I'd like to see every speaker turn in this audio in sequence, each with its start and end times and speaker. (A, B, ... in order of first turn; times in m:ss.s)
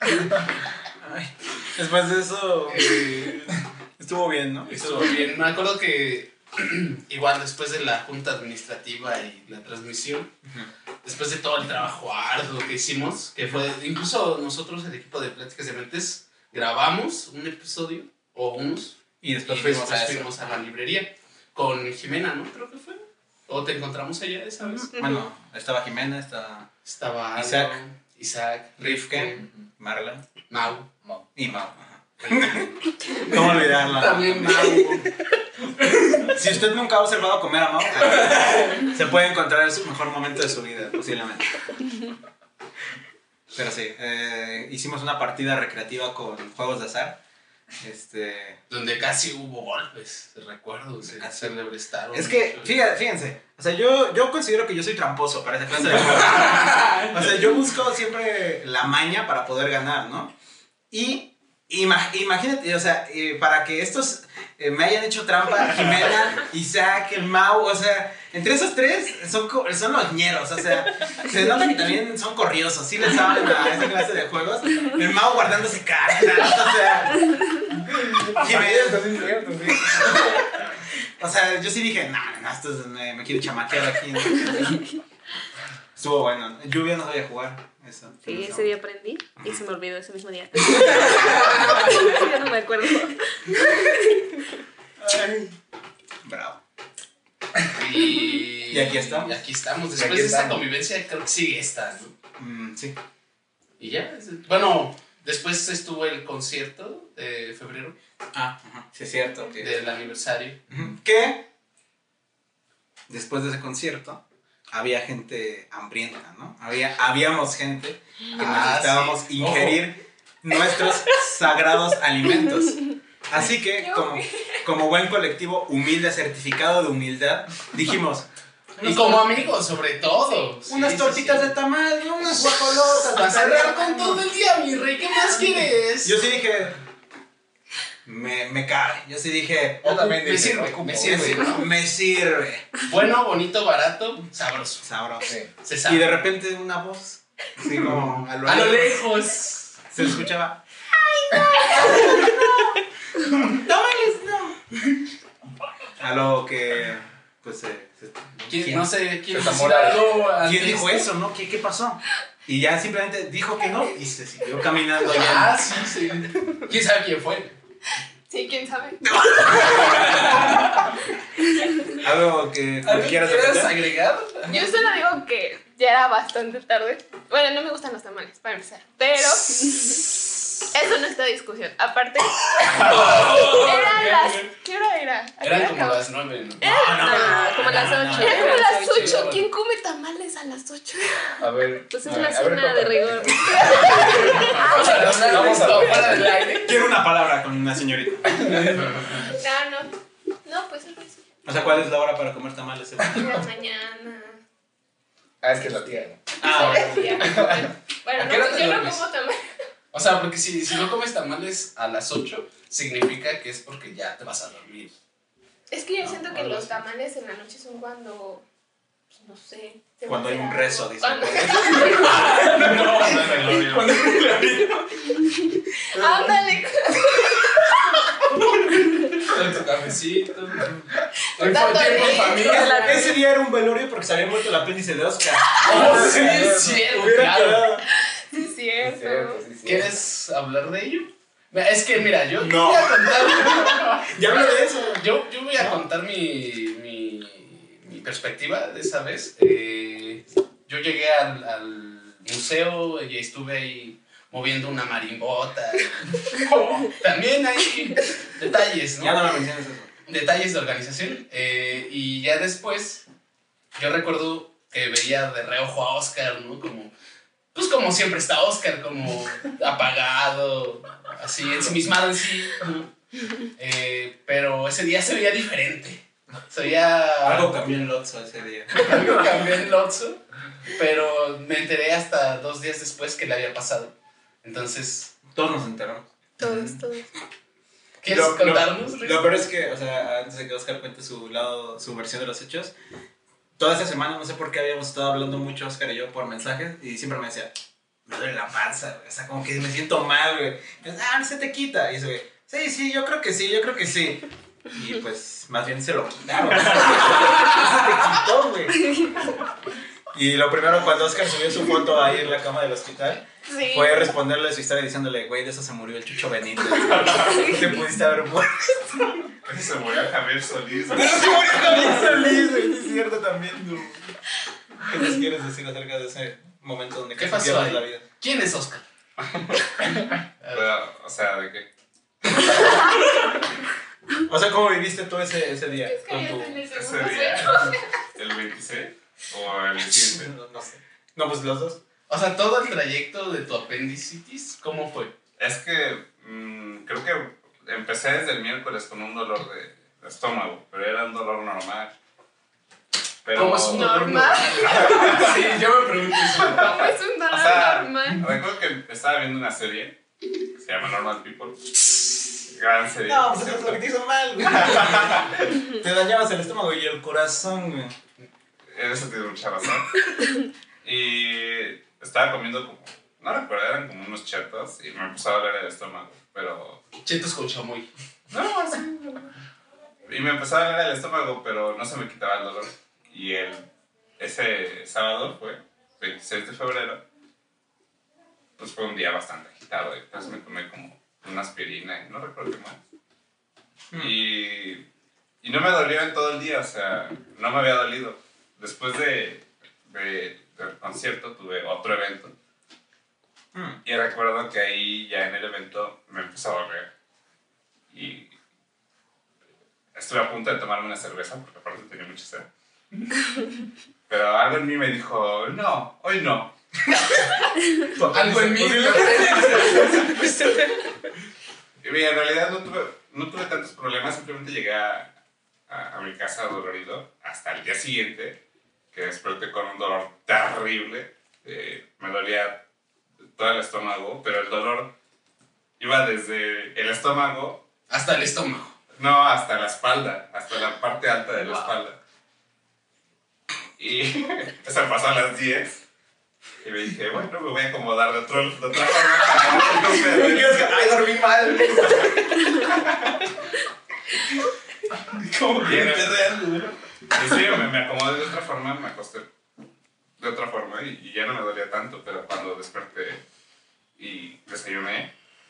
0:01.0-0:05.2 A
0:02.7-0:03.5 B
0:04.7-0:10.3 B
0:11.0-0:24.9 B
0:19.2-0:20.5 A
0:25.0-0:26.8 A
0:26.8-0:29.5 B
0:27.3-0:27.8 A
0:28.8-0:30.2 A
0:30.5-0:30.9 B
0:31.4-0:35.0 A
0:32.2-0:35.1 B
0:35.8-0:36.3 B
0:36.3-0:41.6 A
0:38.0-0:38.9 B
0:43.5-0:47.2 A
0:47.8-0:48.6 A
0:48.7-0:52.8 B
0:51.0-0:51.6 A
0:52.1-1:00.3 A
0:55.8-0:57.2 B
1:00.9-1:17.6 A
1:17.9-1:20.2 C
1:18.3-1:20.6 A
1:21.2-1:24.8 A
1:26.0-1:28.6 A
1:28.2-1:34.3 D
1:30.8-1:32.0 B
1:35.0-1:35.5 A
1:36.2-1:36.6 A
1:37.7-1:42.1 B
1:38.7-1:39.3 A
1:40.0-1:40.6 A
1:40.1-1:40.5 C
1:42.4-1:43.0 A
1:43.8-1:48.0 B
1:48.3-1:49.8 A
1:49.6-1:50.6 B
1:50.7-1:51.4 A
1:53.1-2:09.5 A
1:58.3-1:59.8 B
2:03.8-2:04.6 E
2:08.8-2:11.5 B
2:10.7-2:14.2 A
2:12.2-2:16.2 B
2:16.0-2:16.8 A
2:18.0-2:22.8 A
2:19.8-2:21.6 B
2:19.8-2:21.4 C
2:22.8-2:24.8 B
2:24.8-2:29.1 A
2:25.2-2:25.5 C
2:25.6-2:26.1 B
2:28.4-2:29.8 B
2:29.9-2:34.6 A
2:36.0-2:38.8 A
2:38.5-2:41.0 B
2:39.3-2:40.1 C
2:40.4-2:45.7 A
2:45.1-2:47.6 B
2:48.3-2:49.0 E
2:49.1-2:50.4 A
2:49.6-2:50.8 B
2:49.6-2:50.1 E
2:52.0-2:53.8 A
2:52.8-2:54.7 B
2:54.5-3:00.1 E
3:00.7-3:06.1 E
3:02.7-3:04.5 B
3:05.4-3:06.7 B
3:06.6-3:11.4 E
3:06.6-3:08.6 A
3:07.0-3:08.9 D
3:08.2-3:09.4 B
3:11.4-3:16.3 C
3:11.9-3:14.0 D
3:13.6-3:16.7 B
3:13.8-3:15.6 E
3:16.6-3:18.5 A
3:18.5-3:19.3 B
3:19.2-3:19.9 E
3:20.4-3:21.2 E
3:21.4-3:23.4 A
3:23.1-3:24.4 E
3:25.4-3:26.2 C
3:26.4-3:29.5 E
3:26.4-3:27.7 A
3:27.1-3:27.7 C
3:28.2-3:29.1 B
3:29.9-3:35.0 B
3:35.7-3:38.4 E
3:36.0-3:36.7 A
3:39.1-3:42.6 E
3:40.0-3:45.1 A
3:41.8-3:43.4 B
3:43.0-3:44.1 F
3:45.2-3:48.2 E
3:46.0-3:46.3 A
3:49.2-3:50.7 B
3:51.4-3:53.2 E
3:51.4-3:53.0 B
3:52.4-3:57.8 A
3:55.6-3:57.6 B
3:55.8-3:56.8 C
3:58.0-3:59.4 E
3:58.8-3:59.9 C
3:59.6-4:04.1 B
4:02.4-4:05.0 A
4:04.9-4:19.3 B
4:19.0-4:19.9 A
4:20.1-4:23.0 B
4:23.8-4:26.9 B
4:27.5-4:37.5 B
4:37.2-4:39.2 A
4:38.8-4:45.1 B
4:45.3-4:46.1 A
4:46.4-4:47.1 E
4:46.4-4:46.8 C
4:48.0-4:49.3 B
4:48.0-4:52.7 A
4:53.6-4:57.5 A
4:58.0-5:08.9 A
5:10.1-5:19.2 A
5:13.5-5:14.1 E
5:16.8-5:17.6 F
5:19.4-5:21.8 F
5:20.9-5:24.2 A
5:24.8-5:28.0 A
5:27.2-5:29.9 B
5:30.4-5:30.7 B
5:30.5-5:31.7 F
5:34.2-5:36.6 A
5:35.8-5:38.0 E
5:36.7-5:40.3 F
5:37.0-5:37.5 B
5:39.8-5:41.8 A
5:42.1-5:45.1 B
5:45.4-5:51.9 F
5:53.2-5:54.0 F
5:53.3-5:56.8 B
5:53.7-5:55.3 E
5:54.6-5:55.5 F
5:56.4-5:58.2 E
5:56.6-6:00.0 F
6:00.6-6:01.9 F
6:02.5-6:03.8 F
6:03.1-6:07.9 A
6:04.4-6:05.4 F
6:08.7-6:10.0 F
6:10.8-6:16.8 F
6:17.0-6:17.9 B
6:18.3-6:18.8 F
6:20.0-6:23.6 F
6:24.2-6:27.0 F
6:28.6-6:32.8 F
6:33.9-6:34.8 F
6:35.4-6:42.3 F
6:43.5-6:43.8 A
6:43.8-6:46.9 F
6:47.9-6:48.3 F
6:49.9-6:52.5 F
6:54.1-6:56.5 F
6:57.8-7:00.2 A
6:58.1-7:00.3 B
7:01.8-7:05.1 F
7:05.7-7:08.4 F
7:08.9-7:12.6 F
7:13.4-7:14.9 F
7:15.8-7:17.6 F
7:17.9-7:18.8 B
7:19.0-7:22.0 F
7:21.4-7:21.7 B
7:23.8-7:25.8 F
7:26.6-7:30.8 F
7:29.8-7:32.5 A
7:35.3-7:36.2 B
7:35.6-7:36.6 F
7:35.7-7:36.0 A
7:37.1-7:39.3 F
7:40.2-7:43.2 F
7:44.0-7:45.1 F